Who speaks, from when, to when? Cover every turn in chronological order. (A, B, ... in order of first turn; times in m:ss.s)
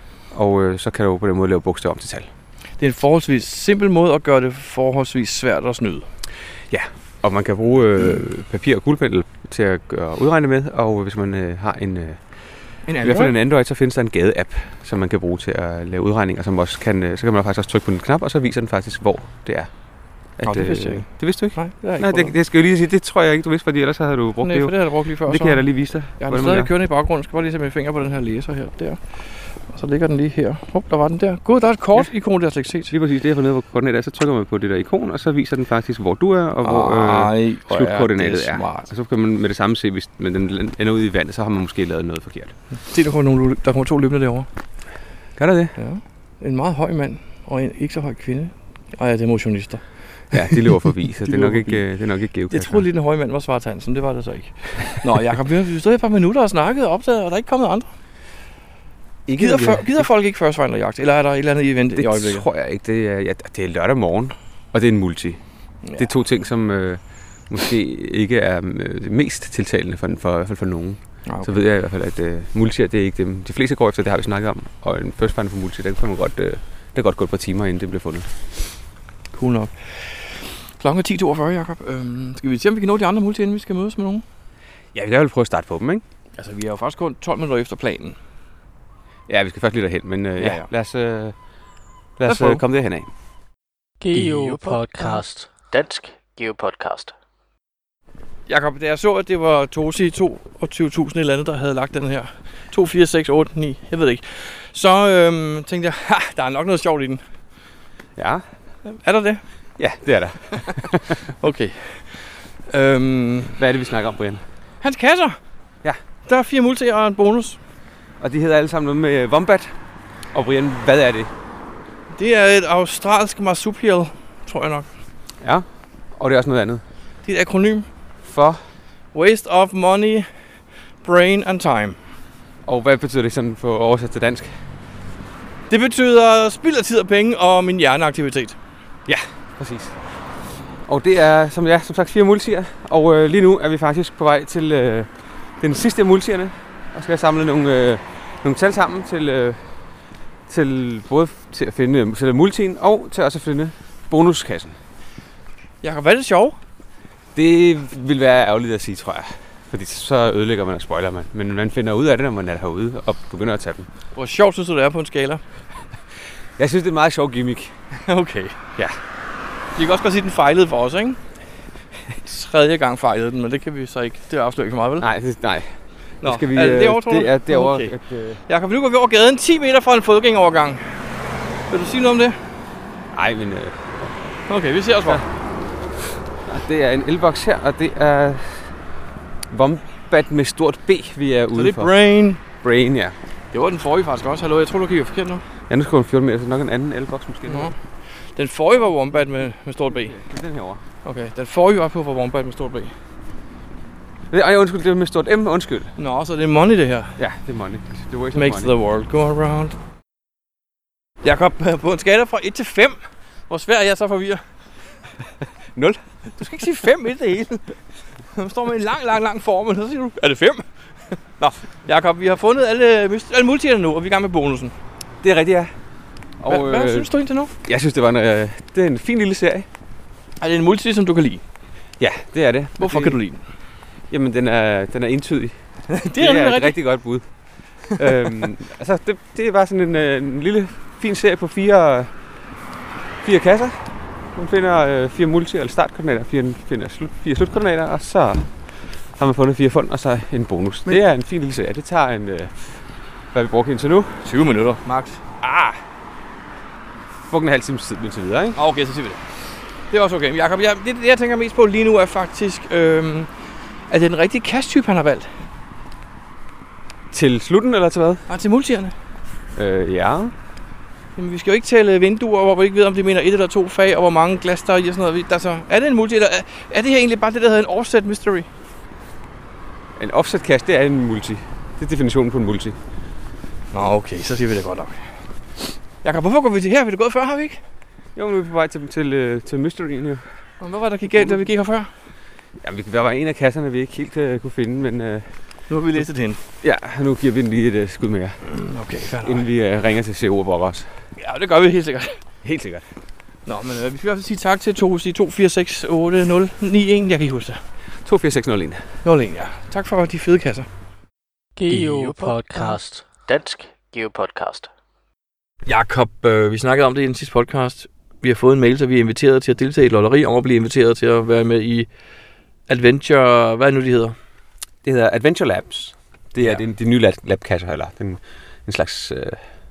0:00.3-0:02.3 A
0:02.8-0:06.1 B
0:06.7-0:12.2 A
0:12.9-0:13.3 B
0:13.0-0:19.7 A
0:20.4-0:26.7 A
0:20.4-0:22.4 B
0:24.4-0:25.6 B
0:26.2-0:29.0 B
0:29.6-0:32.9 B
0:32.9-0:42.5 A
0:36.6-0:38.9 B
0:42.9-0:44.5 B
0:45.4-0:45.7 A
0:45.8-0:49.8 B
0:50.3-0:52.9 A
0:51.3-0:51.8 B
0:52.5-0:57.9 B
0:59.3-1:00.1 A
0:59.4-1:02.5 B
1:02.0-1:05.4 A
1:06.0-1:18.3 A
1:19.3-1:24.2 B
1:24.9-1:26.0 A
1:26.4-1:28.2 B
1:29.3-1:31.4 A
1:30.4-1:30.7 B
1:32.2-1:33.1 A
1:32.3-1:32.6 B
1:34.0-1:35.2 B
1:34.1-1:37.1 C
1:38.5-1:47.2 B
1:48.2-1:48.4 A
1:48.8-1:49.4 B
1:49.8-1:51.2 A
1:50.6-1:53.6 B
1:53.6-1:54.4 A
1:54.8-1:55.4 B
1:56.3-1:57.6 B
1:58.2-1:59.8 A
2:00.3-2:01.3 A
2:02.1-2:04.9 B
2:05.4-2:06.8 A
2:07.2-2:07.9 B
2:08.2-2:08.6 A
2:09.1-2:10.3 B
2:11.0-2:12.0 B
2:12.7-2:14.6 A
2:15.7-2:18.6 B
2:19.1-2:20.0 A
2:20.9-2:29.7 A
2:30.5-2:34.8 A
2:35.8-2:36.6 B
2:37.4-2:43.9 A
2:44.2-2:45.4 B
2:46.6-2:47.8 A
2:48.1-2:48.6 B
2:49.8-2:51.2 B
2:52.2-2:55.1 B
2:55.0-2:55.7 A
2:56.2-2:58.0 B
2:56.2-2:58.4 A
2:58.5-3:01.0 B
3:01.7-3:02.4 B
3:03.1-3:04.2 A
3:04.5-3:05.2 B
3:06.4-3:08.7 A
3:09.5-3:11.9 A
3:11.5-3:12.4 B
3:12.6-3:13.2 A
3:13.5-3:15.4 B
3:15.7-3:17.7 A
3:17.5-3:17.8 B
3:18.4-3:20.2 B
3:20.0-3:20.8 A
3:21.0-3:22.9 B
3:24.3-3:25.9 A
3:26.0-3:27.2 B
3:27.2-3:28.7 A
3:28.3-3:29.8 B
3:31.2-3:34.4 B
3:35.8-3:36.0 A
3:36.3-3:37.7 B
3:38.3-3:44.7 B
3:45.2-3:45.7 A
3:46.4-3:47.1 A
3:46.5-3:47.5 B
3:47.6-3:49.7 A
3:50.4-3:51.4 B
3:52.0-3:53.2 A
3:52.8-3:53.4 B
3:54.1-3:55.6 A
3:55.9-3:56.8 B
3:56.1-3:57.3 A
3:58.0-4:02.1 A
3:58.0-3:58.3 B
4:03.2-4:08.5 A
4:09.2-4:14.2 A
4:14.2-4:15.2 B
4:15.4-4:15.8 A
4:17.2-4:18.6 A
4:18.6-4:19.2 B
4:19.9-4:23.3 B
4:23.9-4:25.3 B
4:27.1-4:28.2 A
4:28.3-4:28.9 B
4:29.6-4:30.3 A
4:31.2-4:38.5 B
4:40.0-4:42.8 A
4:43.7-4:45.1 B
4:46.0-4:47.6 B
4:48.2-4:50.2 A
4:50.6-4:51.9 B
4:52.6-4:55.3 A
4:55.7-4:56.4 B
4:56.6-4:58.4 A
4:58.4-4:59.5 B
4:59.2-5:00.9 A
5:01.2-5:02.2 B
5:02.4-5:02.9 A
5:03.5-5:07.6 B
5:08.0-5:08.8 A
5:09.0-5:10.7 B
5:11.6-5:14.7 C
5:11.7-5:12.8 B
5:15.7-5:21.9 B
5:22.7-5:24.2 B
5:24.8-5:29.4 A